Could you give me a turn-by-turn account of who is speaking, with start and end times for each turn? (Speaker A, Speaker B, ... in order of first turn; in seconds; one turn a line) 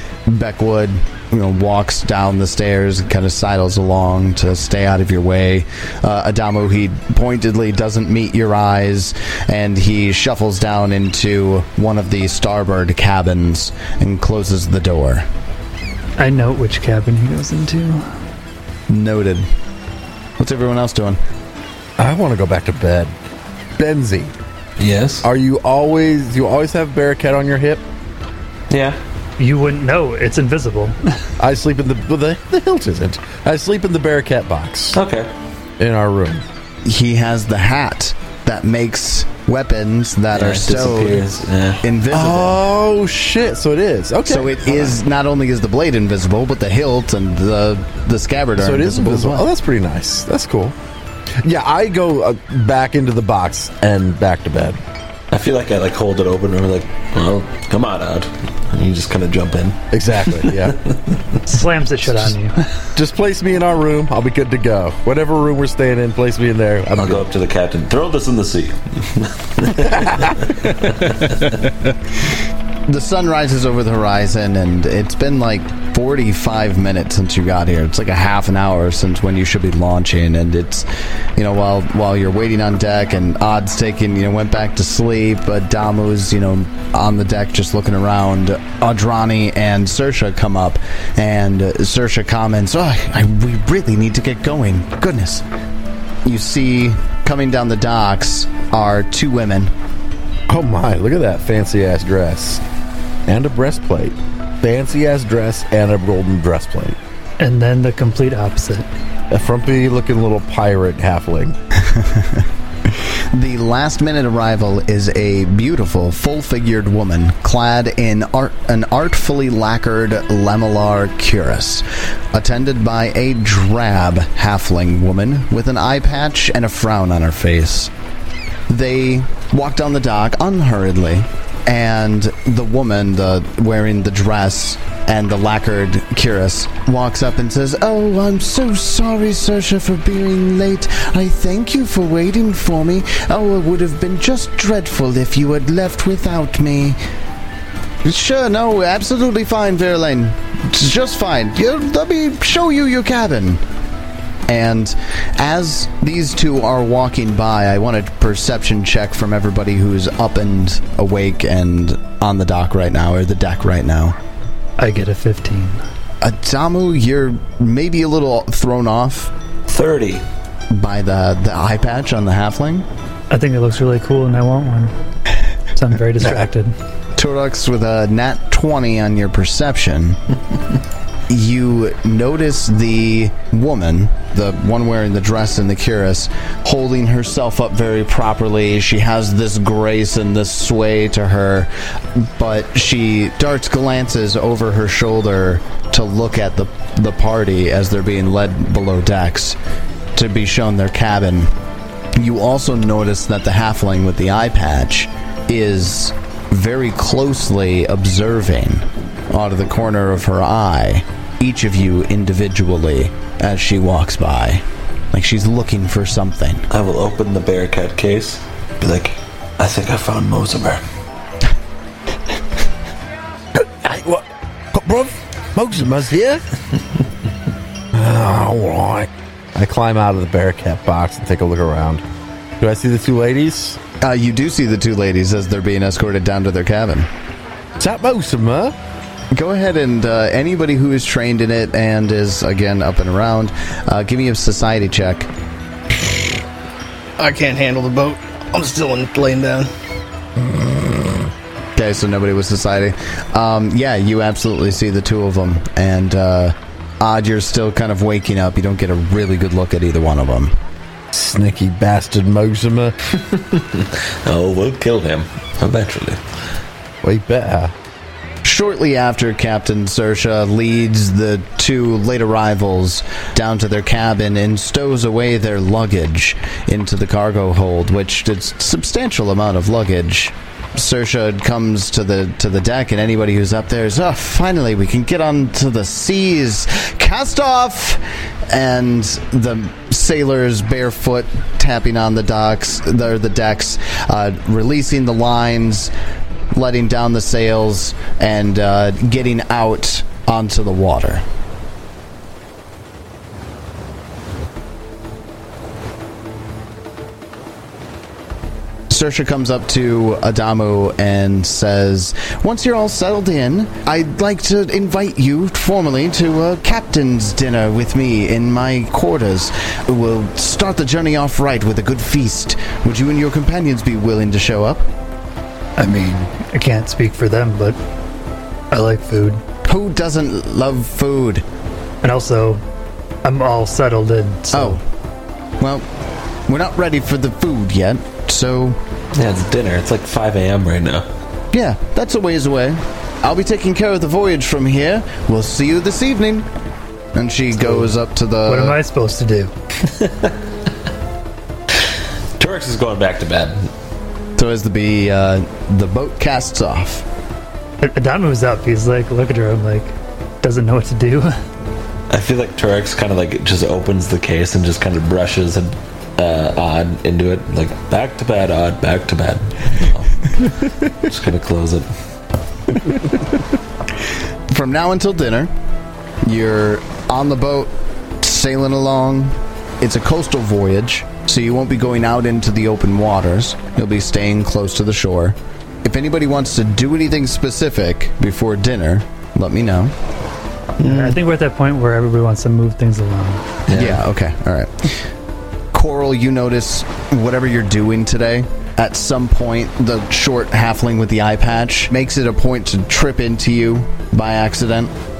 Speaker A: 0.2-15.2
Speaker B: 16.2-18.1
Speaker A: 18.9-19.4
Speaker A: 20.4-21.2
Speaker C: 22.0-23.1
Speaker C: 23.8-24.3
Speaker D: 24.8-25.2
Speaker C: 25.2-27.8
Speaker D: 28.7-29.0
Speaker B: 29.4-31.0
Speaker C: 31.4-35.0
Speaker D: 34.9-35.3
Speaker C: 35.8-36.4
Speaker A: 36.8-41.3
Speaker D: 40.3-41.8
Speaker A: 41.8-42.6
Speaker C: 42.1-45.0
Speaker A: 44.2-49.5
Speaker C: 48.6-50.7
Speaker C: 51.4-54.8
Speaker D: 55.3-61.0
Speaker C: 59.9-60.8
Speaker B: 61.5-62.6
Speaker C: 62.9-67.3
Speaker D: 67.0-71.5
Speaker C: 69.8-71.0
Speaker A: 72.9-95.4
Speaker A: 96.2-99.7
Speaker C: 100.5-102.6
Speaker C: 103.3-107.0
Speaker B: 107.4-108.9
Speaker C: 109.3-111.5
Speaker A: 111.8-127.9
Speaker A: 128.7-147.0
Speaker A: 148.0-153.6
Speaker A: 154.5-164.2
Speaker B: 164.8-165.8
Speaker A: 166.2-169.3
Speaker D: 169.7-170.2
Speaker A: 170.7-172.9
Speaker B: 173.3-174.9
Speaker B: 175.7-176.7
Speaker A: 177.2-180.2
Speaker A: 181.3-199.6
Speaker A: 200.1-201.5
Speaker A: 202.2-216.7
Speaker D: 216.7-220.8
Speaker C: 223.6-226.4
Speaker C: 227.9-232.0
Speaker C: 232.6-233.8
Speaker A: 234.0-237.1
Speaker C: 237.8-238.7
Speaker A: 239.3-245.3
Speaker E: 247.2-249.7
Speaker A: 251.8-260.5
Speaker C: 261.1-262.9
Speaker D: 263.1-266.2
Speaker C: 267.0-267.7
Speaker A: 268.4-295.9
Speaker A: 296.5-301.2
Speaker A: 308.9-324.8
Speaker B: 325.8-327.8
Speaker B: 328.7-329.4
Speaker A: 329.6-331.4
Speaker B: 332.0-332.6
Speaker B: 333.2-334.8
Speaker A: 334.5-334.8
Speaker A: 335.6-335.9
Speaker A: 336.5-338.8
Speaker D: 339.1-341.1
Speaker A: 341.5-346.5
Speaker A: 347.1-348.8
Speaker B: 348.4-349.5
Speaker D: 352.4-353.7
Speaker A: 354.4-357.1
Speaker B: 357.8-361.4
Speaker D: 362.1-371.9
Speaker A: 374.5-375.5
Speaker A: 376.2-389.9
Speaker B: 390.8-393.4
Speaker E: 390.8-391.1
Speaker D: 393.7-394.0
Speaker A: 393.7-394.9
Speaker A: 395.7-404.9